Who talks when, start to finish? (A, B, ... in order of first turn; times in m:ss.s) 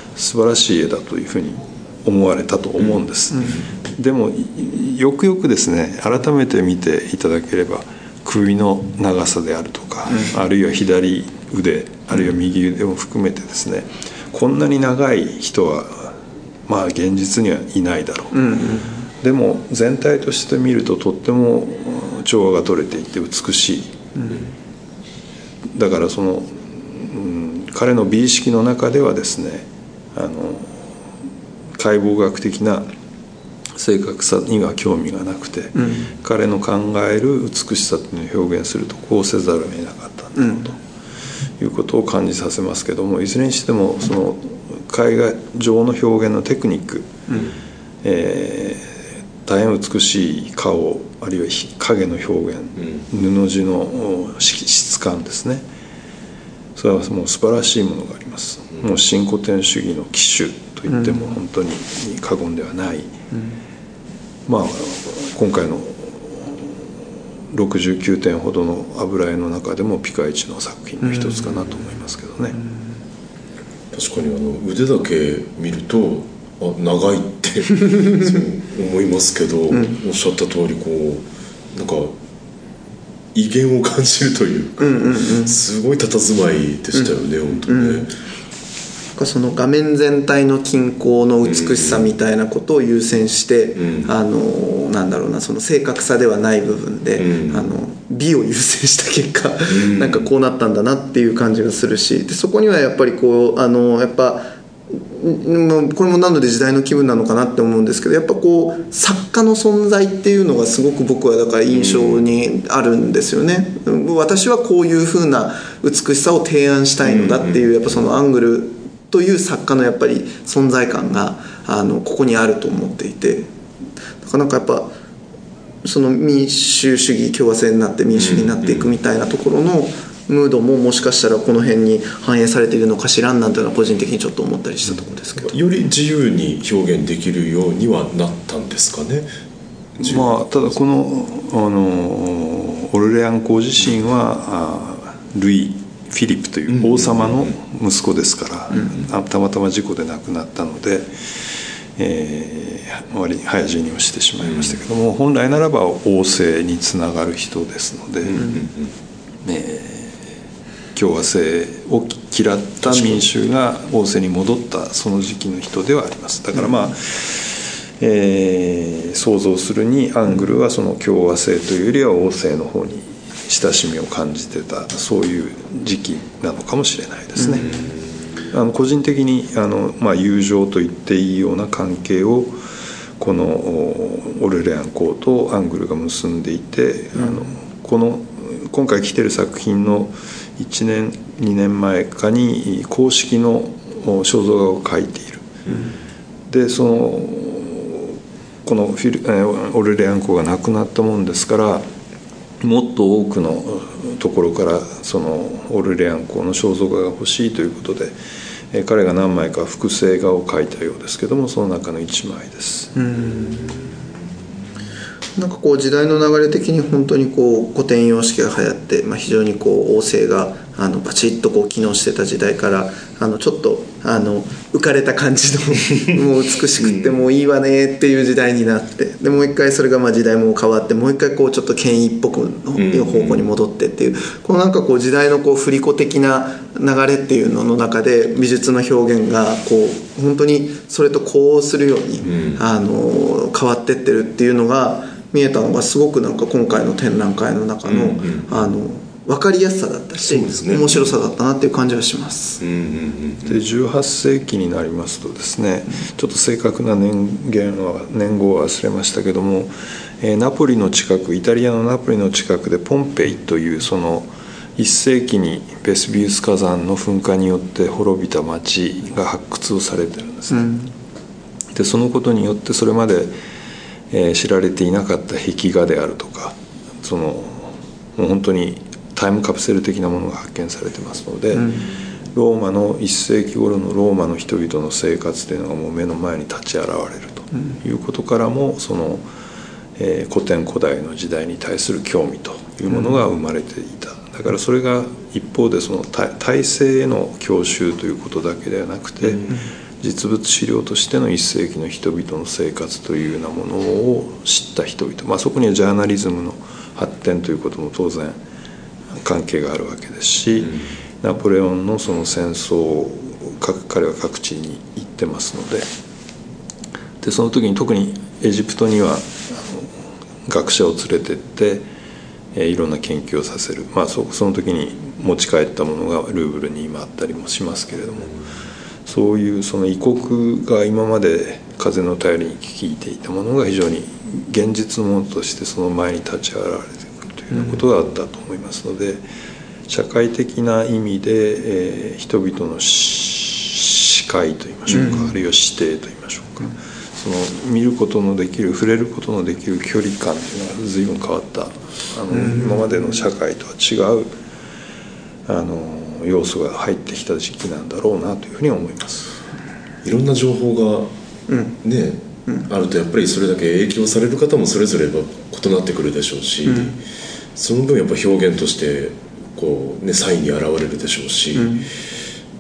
0:00.2-0:18.6 A
0:03.3-0:03.6 B
0:18.3-0:19.1 B
0:19.2-0:24.0 A
0:24.2-0:24.5 B
0:25.7-0:30.9 A
0:31.8-0:32.9 A
0:33.8-0:40.8 A
0:35.8-0:36.1 B
0:40.4-0:40.7 B
0:41.6-0:47.3 A
0:48.0-0:48.9 A
0:49.4-0:55.6 A
0:52.8-0:53.0 C
0:56.8-1:03.2 A
1:00.9-1:01.3 B
1:03.3-1:03.6 B
1:04.5-1:06.8 A
1:07.5-1:12.6 A
1:11.0-1:11.7 B
1:12.5-1:12.9 B
1:13.9-1:22.2 C
1:23.4-1:28.1 C
1:24.8-1:25.6 B
1:27.7-1:28.1 B
1:29.2-2:03.5 B
1:31.4-1:32.1 C
1:33.8-1:34.1 C
1:37.2-1:37.7 C
1:39.7-1:40.3 C
1:51.7-1:52.2 C
1:57.0-1:57.7 C
2:04.2-2:04.9 B
2:05.8-2:15.5 B
2:08.2-2:08.9 C
2:15.4-2:19.3 C
2:20.0-2:38.6 A
2:20.0-2:20.4 C
2:26.7-2:27.5 C
2:34.4-2:34.7 C
2:38.3-2:38.9 C
2:39.4-2:40.2 A
2:40.9-2:57.7 A
2:42.8-2:43.2 B
2:57.4-2:57.6 B
2:57.6-2:58.0 C
2:58.5-3:02.6 A
3:03.2-3:15.6 A
3:07.2-3:07.5 B
3:16.5-3:21.9 A
3:22.6-3:28.2 A
3:28.7-3:32.9 A
3:33.0-3:33.8 B
3:35.4-4:12.6 B
3:46.8-3:47.2 C
3:52.8-3:53.5 C
4:02.2-4:02.6 C
4:07.8-4:08.6 C
4:10.2-4:11.1 C
4:12.6-4:13.6 C
4:13.4-4:30.7 A
4:30.5-4:30.9 B
4:31.7-4:33.3 A
4:34.1-4:41.8 A
4:41.6-4:41.8 B
4:42.3-4:49.3 A
4:50.0-4:59.5 A
5:00.0-5:08.4 A
5:09.2-5:15.9 A
5:17.2-5:21.9 A
5:22.5-5:28.3 A
5:29.1-5:39.2 A
5:37.5-5:37.8 B
5:39.9-5:54.3 A
5:44.9-5:45.3 B
5:52.3-5:52.9 B
5:55.5-5:59.4 A
6:00.0-6:01.1 C
6:01.5-6:01.8 B
6:01.8-6:07.0 C
6:06.7-6:07.0 B
6:07.6-6:11.8 C
6:11.6-6:11.9 B